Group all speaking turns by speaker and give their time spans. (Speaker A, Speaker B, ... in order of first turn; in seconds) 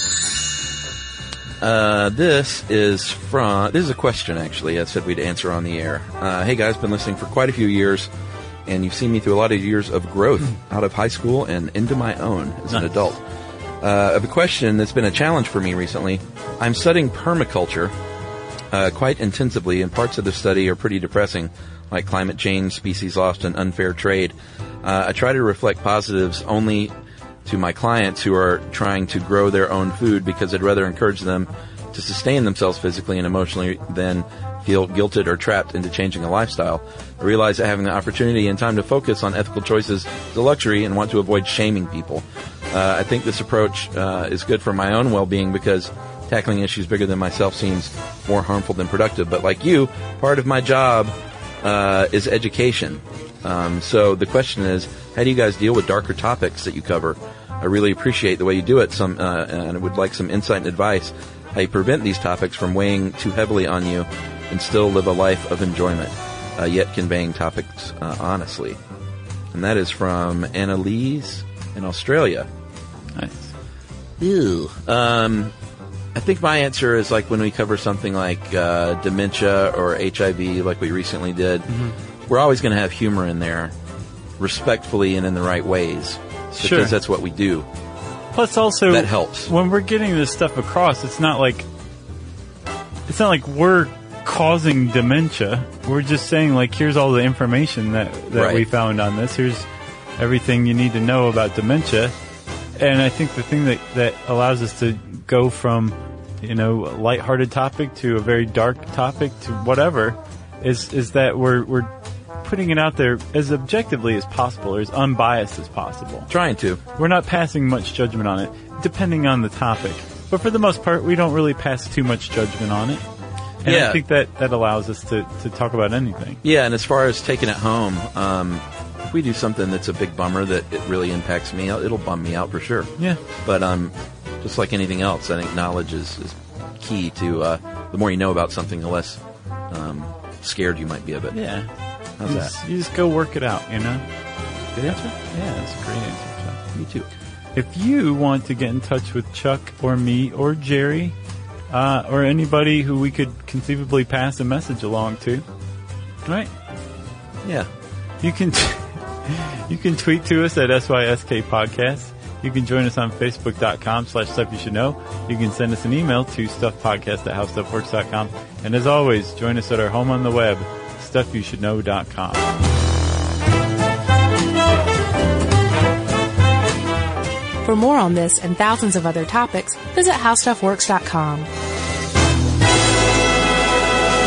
Speaker A: 1.6-8.1, 8.7-13.2, 13.8-17.9, 18.7-26.9, 27.4-68.8, 69.5-72.5, 74.2-75.5, 76.1-81.8, 82.3-83.7, 84.4-87.7, 88.9-89.5, 98.3-98.7, 116.3-116.8, 123.6-124.0, 126.4-132.9, 133.4-139.2, 139.7-141.3, 142.2-142.5, 146.7-147.1, 157.4-157.7
Speaker B: 12.7-13.1, 73.2-73.5, 81.7-81.9, 86.5-86.9, 88.3-91.7, 93.1-99.7, 100.2-102.1, 102.8-111.9, 112.4-116.3, 117.0-123.0, 123.6-126.4, 141.3-141.7, 142.2-144.1, 144.8-146.6, 147.5-151.2, 151.7-155.4, 156.2-156.5, 158.2-172.5
Speaker C: 177.6-181.5